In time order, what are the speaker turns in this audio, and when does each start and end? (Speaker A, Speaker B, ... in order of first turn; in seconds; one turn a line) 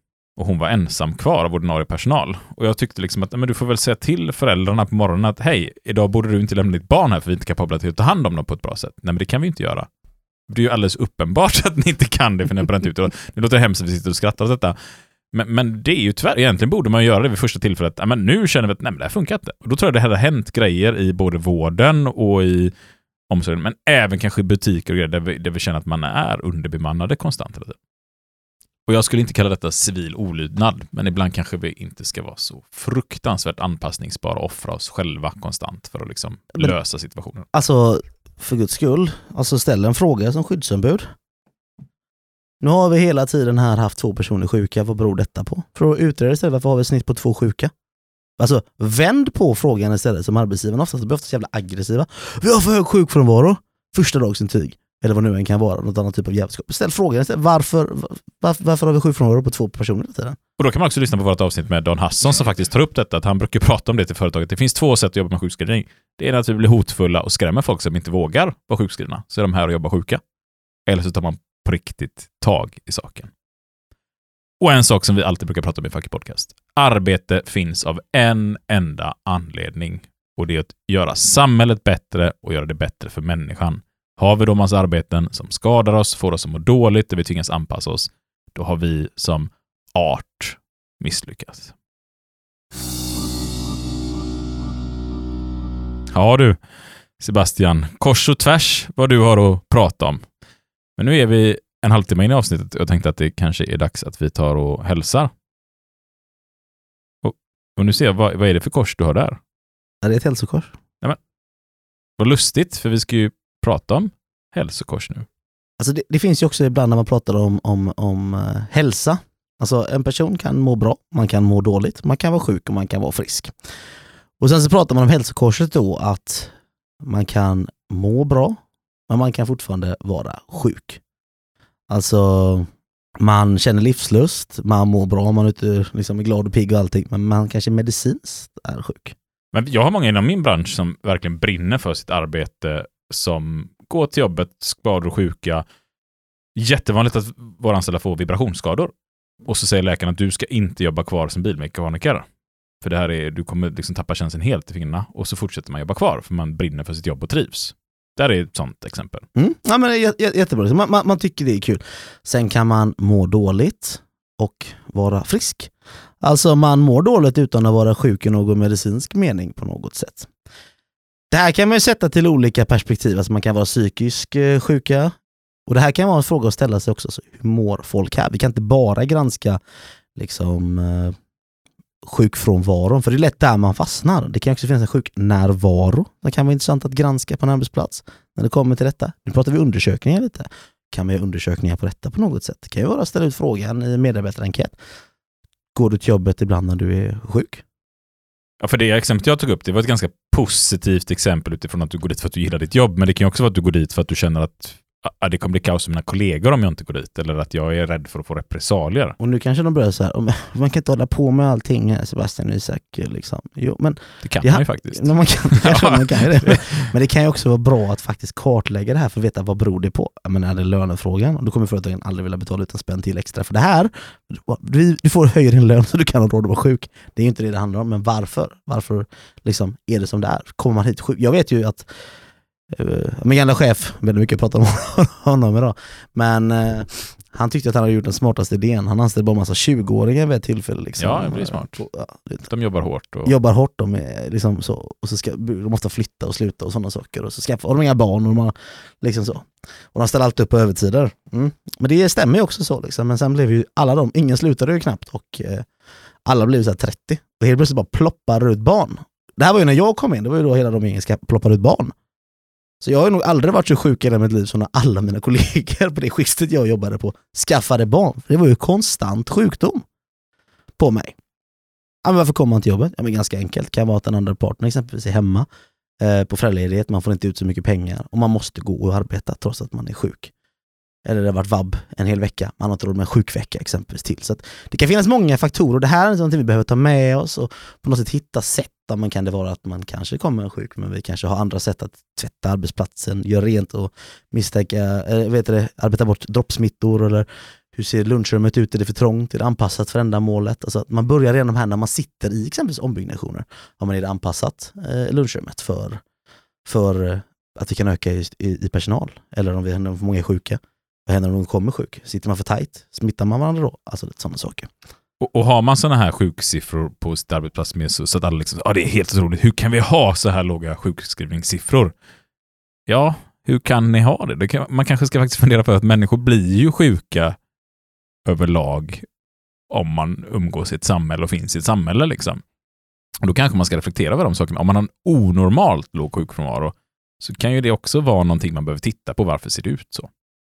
Speaker A: 0.3-9.9
Speaker A: 10.5-14.8
Speaker A: 15.3-22.7
Speaker A: 23.3-27.8
Speaker A: 28.9-37.4
Speaker B: 37.5-41.1
Speaker B: 42.6-47.7
Speaker B: 48.4-60.4
Speaker A: 60.6-70.2
Speaker A: 70.9-73.3
Speaker A: 74.6-91.7
Speaker A: 96.1-96.6
Speaker A: 97.2-100.2
Speaker A: 101.0-105.3
Speaker A: 107.2-109.4
Speaker B: 110.0-110.7
Speaker A: 112.2-115.2
Speaker B: 115.8-123.5
Speaker B: 124.4-128.6
Speaker B: 129.1-131.0
Speaker B: 131.9-132.7
Speaker B: 133.2-139.2
Speaker A: 139.5-145.6
Speaker A: 146.6-148.9
Speaker A: 149.4-152.3
Speaker A: 152.8-159.2
Speaker B: 159.3-170.3
Speaker B: 171.3-175.1
Speaker B: 175.7-179.6
Speaker B: 180.2-181.2
Speaker B: 182.0-194.8
Speaker B: 195.7-197.6
Speaker A: 198.6-209.2
Speaker B: 209.2-231.9
Speaker A: 214.2-216.9
Speaker B: 232.7-242.4
Speaker A: 241.0-241.8
Speaker A: 242.5-243.3
Speaker B: 243.2-255.7
Speaker B: 256.2-261.9
Speaker B: 262.8-269.8
Speaker B: 270.8-271.1
Speaker B: 272.0-275.5
Speaker B: 276.0-280.3
Speaker B: 281.0-306.0
Speaker B: 306.6-314.7
Speaker A: 315.2-321.9
Speaker A: 322.9-327.4
Speaker A: 328.2-329.0
Speaker A: 329.7-332.4
Speaker A: 333.2-340.1